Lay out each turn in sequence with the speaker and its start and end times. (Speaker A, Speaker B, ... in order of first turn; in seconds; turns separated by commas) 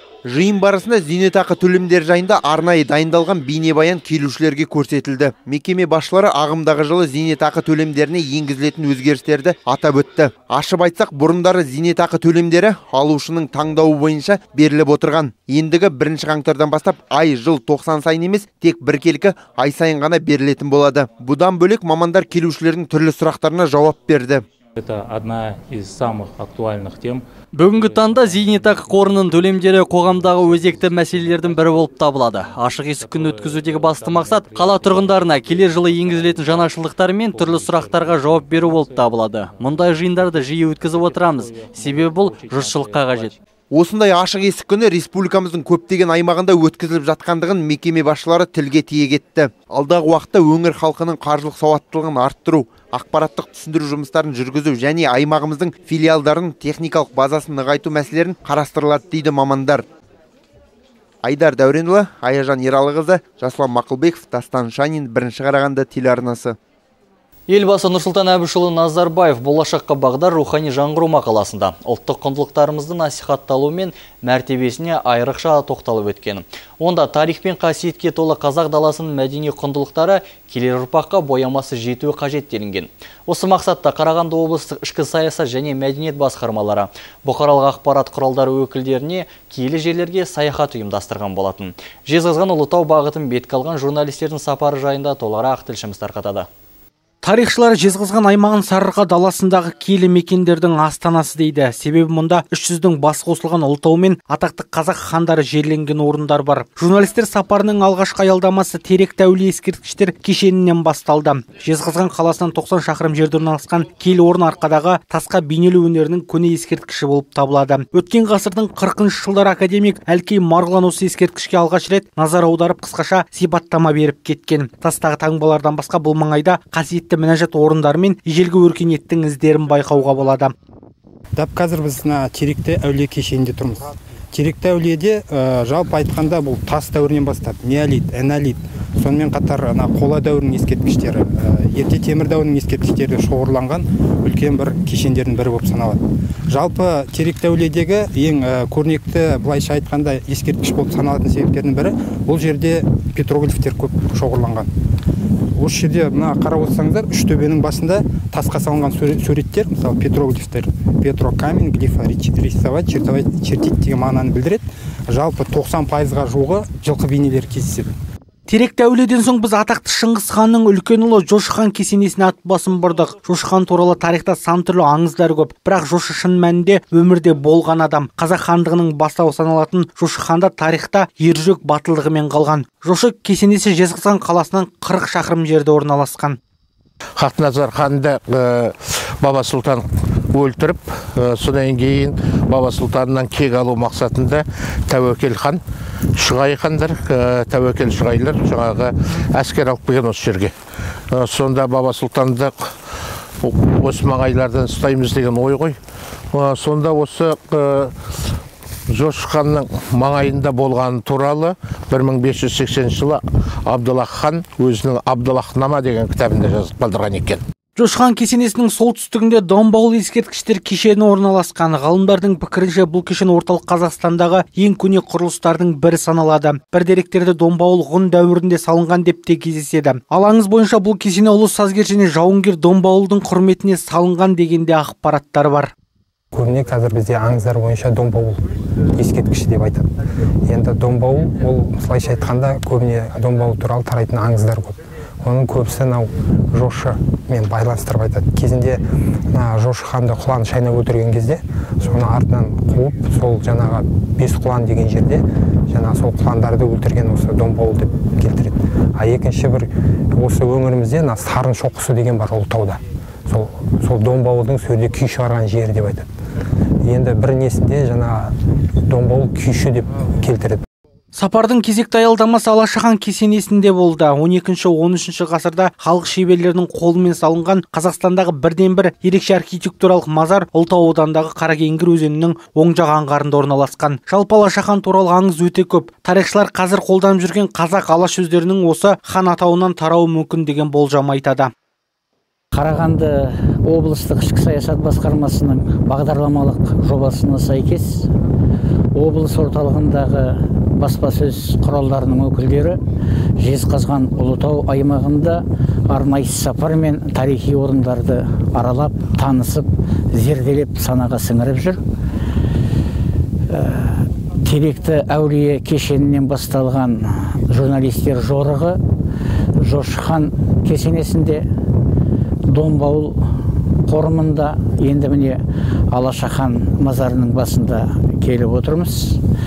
Speaker A: 0.3-24.4, Speaker B: 24.8-27.2, Speaker C: 27.5-43.3, Speaker B: 27.8-28.1, Speaker B: 30.8-31.6, Speaker B: 33.1-36.4, Speaker D: 33.2-36.2, Speaker B: 37.3-38.7, Speaker D: 37.4-38.5, Speaker B: 41.0-43.3, Speaker D: 41.3-43.3, Speaker A: 43.7-59.8, Speaker A: 61.2-66.5, Speaker C: 67.5-96.5, Speaker E: 97.2-130.5, Speaker F: 131.4-154.7, Speaker F: 155.6-167.9, Speaker E: 168.5-186.4, Speaker D: 187.2-195.6, Speaker D: 196.2-200.5, Speaker D: 201.1-202.6, Speaker D: 203.4-205.8, Speaker D: 206.3-207.9, Speaker D: 208.9-217.4, Speaker E: 217.8-235.7, Speaker F: 236.3-238.4, Speaker F: 238.9-239.9, Speaker F: 240.5-248.8, Speaker F: 249.3-266.1, Speaker F: 266.8-268.3, Speaker F: 268.9-270.6, Speaker E: 271.1-291.5, Speaker G: 292.5-298.1, Speaker G: 298.9-302.8, Speaker G: 303.4-311.8, Speaker G: 313.5-318.8, Speaker G: 319.6-321.5, Speaker G: 322.5-323.3, Speaker G: 323.9-329.2